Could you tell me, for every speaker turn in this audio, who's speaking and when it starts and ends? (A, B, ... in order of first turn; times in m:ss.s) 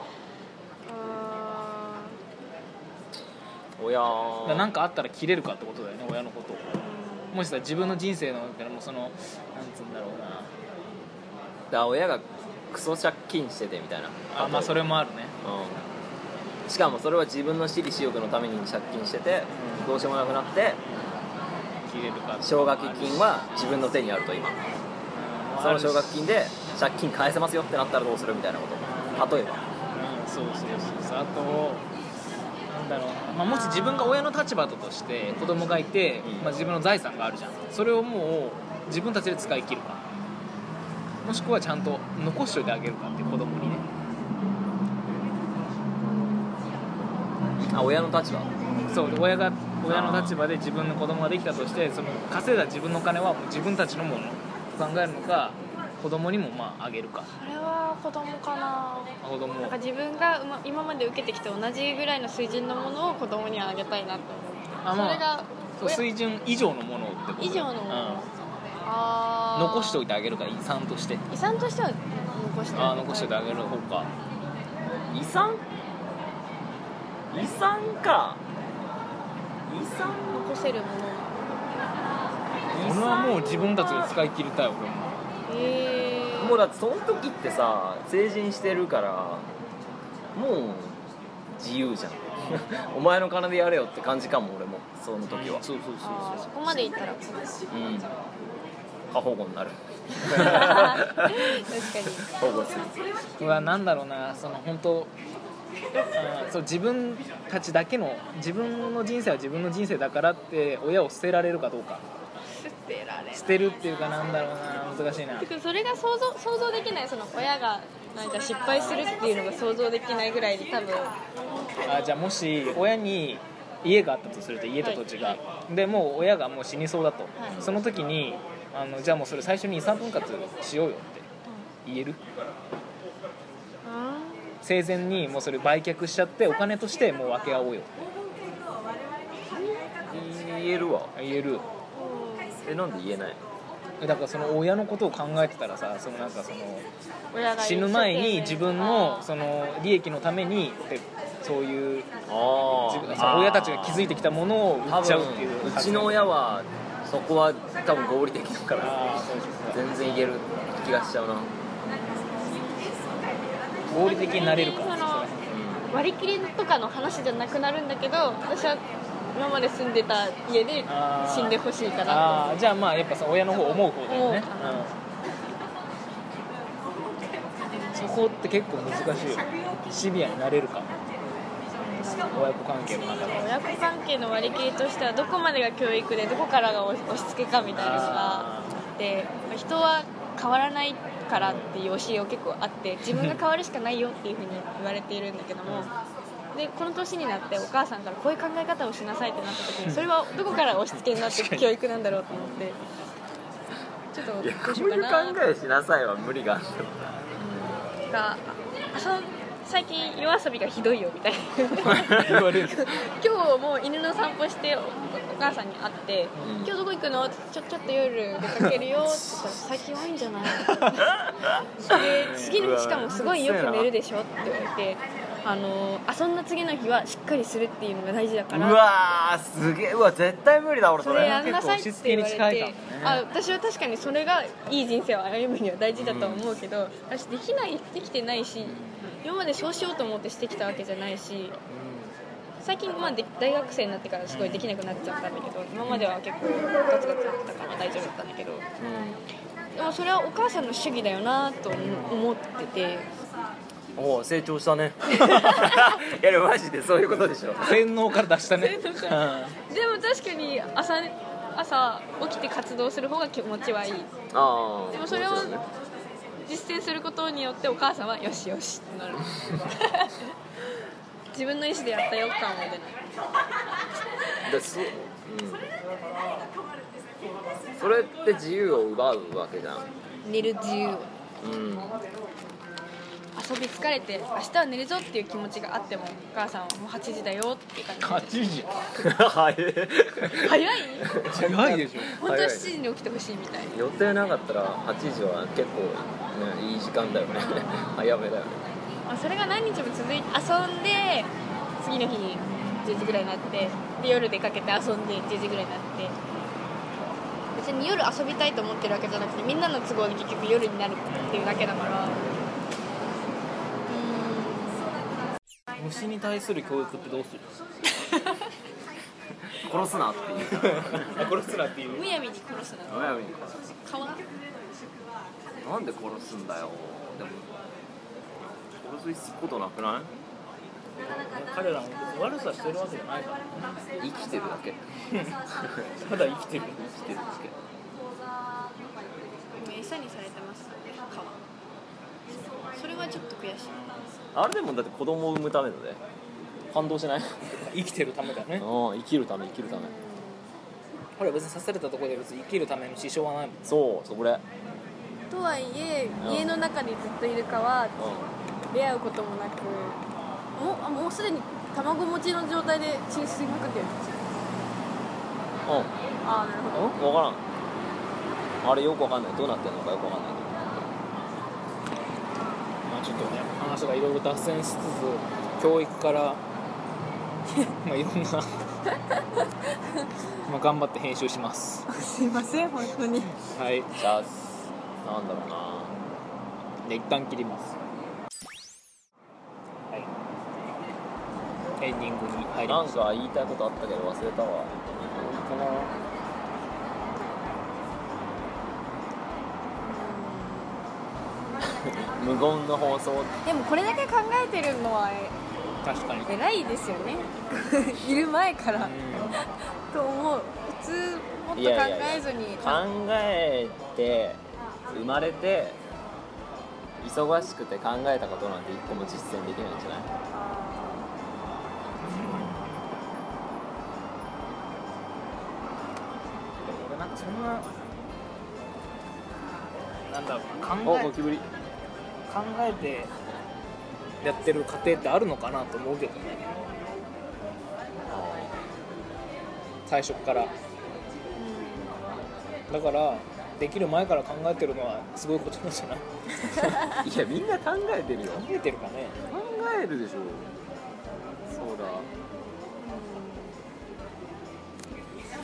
0:00.8-0:02.2 A
0:03.8-0:04.7 B
0:04.4-0:10.5 C
0:06.8-0:07.4 A
0:11.7-0:14.8 B
0:14.3-0:15.4 C
0:15.4-0:15.8 B
0:16.7-0:20.8 B
0:19.5-0:19.9 C
0:21.8-0:23.7 C
0:22.4-0:24.6 B
0:25.1-0:26.2 C
0:25.6-0:29.6 B
0:28.8-0:31.8 C
0:32.7-0:40.0 C
0:33.4-0:34.3 A
0:36.2-0:36.5 B
0:41.2-0:43.8 C
0:47.6-0:48.5 B
0:48.9-0:57.3 C
0:49.9-0:50.3 B
0:57.3-1:06.0 A
0:59.2-0:59.8 C
1:04.8-1:05.2 C
1:05.8-1:08.3 C
1:07.4-1:08.3 A
1:08.8-1:10.0 A
1:09.5-1:11.2 C
1:11.3-1:13.6 A
1:12.7-1:14.1 C
1:15.1-1:15.6 B
1:17.3-1:18.4 B
1:19.7-1:20.4 B
1:20.0-1:21.4 A
1:22.7-1:24.1 B
1:22.7-1:25.2 C
1:25.5-1:26.6 A
1:26.4-1:29.5 B
1:30.3-1:31.0 B
1:31.5-1:35.6 B
1:32.4-1:32.7 C
1:35.3-1:36.4 C
1:36.0-1:37.7 A
1:37.7-1:38.1 B
1:39.1-1:41.6 B
1:40.3-1:42.3 A
1:42.2-1:42.9 B
1:43.4-1:45.1 C
1:46.1-1:52.0 C
1:52.6-1:53.7 A
1:53.3-1:55.5 C
1:55.4-2:01.2 A
1:58.7-1:59.1 C
2:01.8-2:11.2 C
2:07.5-2:07.8 B
2:11.8-2:12.2 C
2:13.8-2:14.6 A
2:14.6-2:17.9 C
2:20.0-2:21.1 B
2:21.1-2:21.6 C
2:21.9-2:22.6 A
2:22.6-2:23.4 B
2:24.0-2:26.9 C
2:27.3-2:29.3 A
2:27.6-2:32.1 C
2:32.3-2:34.1 B
2:32.7-2:36.3 C
2:34.8-2:39.0 B
2:38.8-2:40.3 C
2:39.7-2:41.5 B
2:41.9-2:43.1 A
2:43.9-2:45.6 C
2:43.9-2:45.3 A
2:45.5-2:45.9 B
2:45.9-2:48.8 A
2:49.3-2:52.6 A
2:50.9-2:54.9 C
2:54.1-2:54.9 A
2:57.7-2:58.0 A
2:57.9-3:00.9 C
3:01.8-3:15.9 A
3:02.3-3:03.5 C
3:07.8-3:08.8 C
3:11.4-3:11.6 C
3:13.1-3:13.4 C
3:15.6-3:15.9 C
3:16.5-3:22.8 A
3:20.9-3:21.7 C
3:22.3-3:22.6 C
3:24.1-3:25.4 A
3:24.4-3:27.0 B
3:27.4-3:41.2 A
3:31.8-3:32.9 B
3:31.9-3:32.7 C
3:36.4-3:36.7 B
3:40.6-3:43.9 B
3:41.8-3:42.6 C
3:41.8-3:48.8 A
3:48.5-3:51.4 B
3:51.0-4:01.6 A
3:51.0-3:53.2 C
3:55.9-3:56.4 B
3:58.6-3:59.1 C
4:01.7-4:02.1 B
4:02.6-4:08.6 A
4:04.3-4:04.7 C
4:08.8-4:09.2 B
4:09.8-4:13.1 A
4:11.7-4:12.2 C
4:14.0-4:17.8 B
4:15.2-4:15.9 A
4:17.6-4:19.6 C
4:18.5-4:24.1 A
4:24.3-4:25.6 B
4:24.9-4:25.7 A
4:26.4-4:30.3 A
4:31.3-4:33.0 A
4:34.4-4:35.7 B
4:37.8-4:39.9 B
4:40.2-4:41.1 A
4:41.4-4:42.0 B
4:43.4-4:48.3 A
4:48.0-4:48.8 C
4:49.0-4:52.7 B
4:50.4-4:51.1 A
4:51.2-4:52.1 C
4:52.2-4:53.7 A
4:53.7-4:58.6 B
4:57.4-4:57.9 A
4:59.0-5:06.2 A
5:02.6-5:02.9 C
5:07.5-5:12.2 A
5:11.1-5:11.5 C
5:13.9-5:15.0 A
5:15.8-5:17.7 C
5:19.5-5:21.5 B
5:20.5-5:22.1 C
5:21.8-5:24.2 A
5:22.9-5:23.6 B
5:25.6-5:27.5 B
5:28.8-5:30.1 B
5:31.0-5:33.7 C
5:34.0-5:34.8 B
5:35.1-5:35.4 C
5:35.5-5:35.9 B
5:36.0-5:37.4 C
5:37.1-5:37.5 B
5:39.5-5:41.4 A
5:42.7-5:43.8 A
5:43.7-5:44.1 C
5:44.3-5:46.0 B
5:46.7-5:47.6 B
5:47.5-5:48.7 C
5:48.5-5:49.9 B
5:49.6-5:50.5 A
5:51.2-5:53.7 C
5:53.6-5:54.4 B
5:55.3-5:58.1 A
5:56.2-5:56.5 B
5:58.0-5:58.3 B
5:58.7-6:00.0 A
6:00.5-6:04.0 A
6:05.6-6:05.9 B
6:06.2-6:07.0 A
6:06.9-6:07.4 B
6:08.6-6:10.8 B
6:12.8-6:16.4 C
6:17.8-6:18.5 C
6:20.4-6:21.9 C
6:21.9-6:23.4 A
6:23.4-6:23.9 C
6:24.0-6:24.5 B
6:25.0-6:25.9 B
6:26.8-6:27.8 C
6:31.8-6:33.0 C
6:32.7-6:35.9 B
6:39.8-6:40.8 A
6:41.6-6:43.3 B
6:43.4-6:45.4 A
6:45.8-6:46.3 C
6:46.2-6:52.8 A
6:48.7-6:49.4 C
6:51.5-6:55.8 B
6:57.0-7:00.1 B
7:00.3-7:01.1 A
7:02.0-7:02.7 C
7:06.6-7:07.7 C
7:10.0-7:11.3 C
7:10.8-7:11.5 B
7:12.3-7:13.1 C
7:14.2-7:16.7 C
7:18.0-7:18.5 B
7:19.9-7:20.5 C
7:21.4-7:22.1 A
7:22.7-7:26.9 C
7:27.0-7:28.4 B
7:28.3-7:29.2 C
7:29.3-7:30.5 B
7:31.5-7:32.1 B
7:32.8-7:33.6 A